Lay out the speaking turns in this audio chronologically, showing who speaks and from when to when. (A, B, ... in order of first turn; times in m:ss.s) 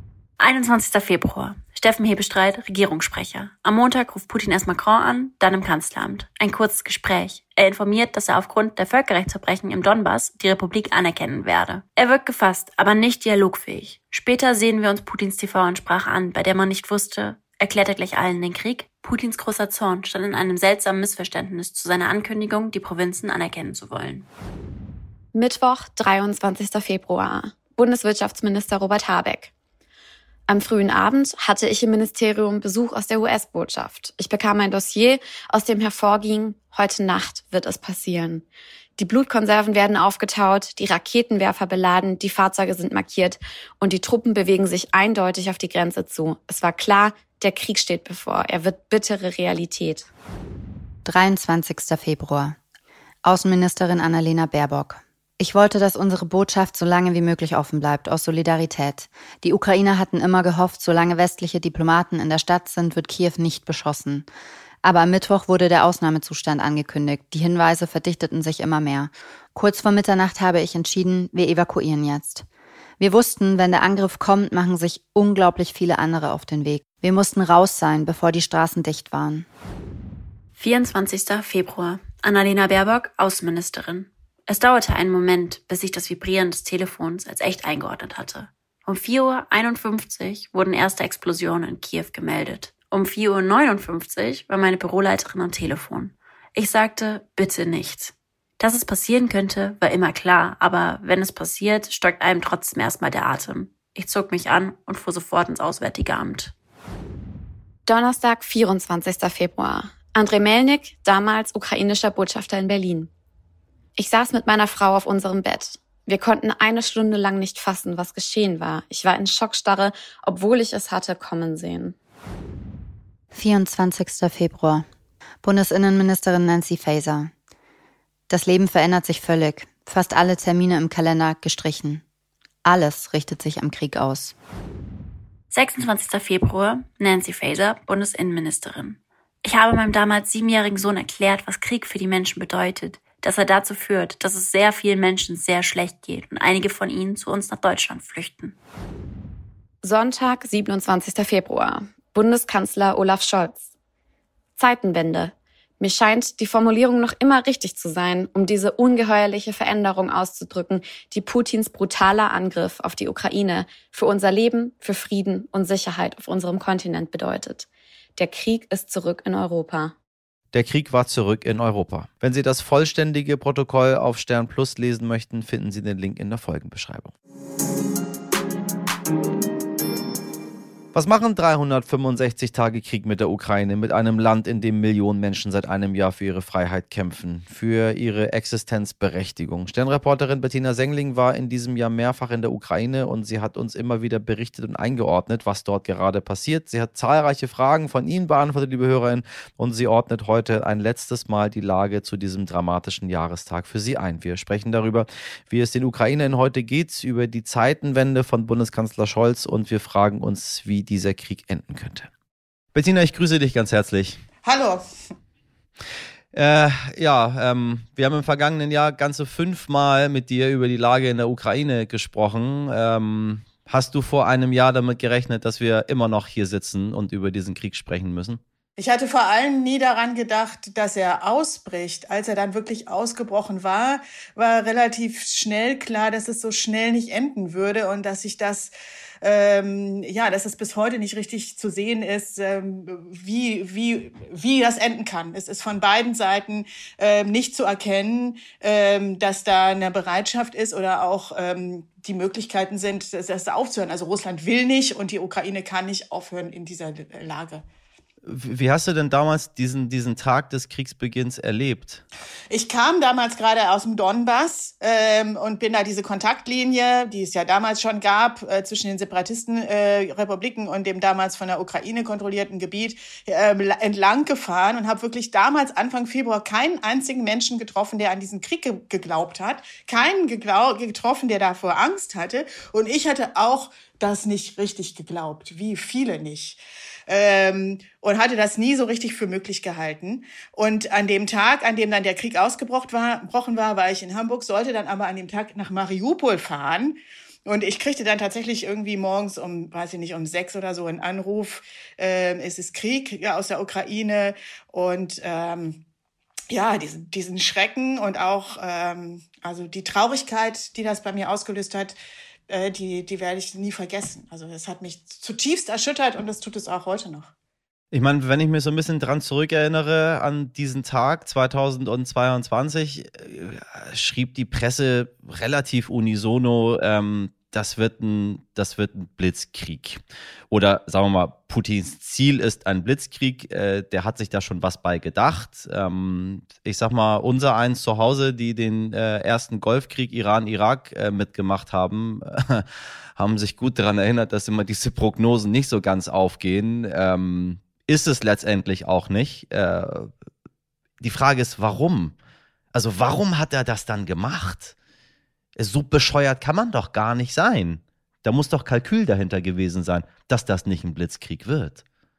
0:00.4-0:24.2 A
0:25.3-0:29.5 B
0:30.5-0:38.4 B
0:39.0-0:50.1 B
0:51.0-0:52.6 C
0:53.2-1:04.3 C
1:04.8-1:12.4 C
1:13.0-1:19.5 C
1:20.6-1:46.5 A
1:47.8-1:53.1 B
1:54.0-2:02.0 B
2:03.3-2:04.8 C
2:05.4-2:07.3 C
2:08.3-2:12.0 C
2:12.6-2:14.3 C
2:15.5-2:28.5 A
2:29.8-2:33.7 B
2:34.6-2:49.9 B
2:50.5-2:57.1 D
3:00.9-3:32.1 D
3:32.7-3:34.2 D
3:34.4-3:34.8 E
3:36.3-3:48.4 D
3:48.8-4:17.6 E
4:18.2-4:22.0 D
4:22.5-5:05.8 E
5:06.5-5:11.9 E
5:12.5-5:17.3 E
5:17.9-5:42.6 D
5:43.2-5:50.1 D
5:51.0-5:52.1 D
5:52.7-5:54.7 D
5:55.6-6:01.8 D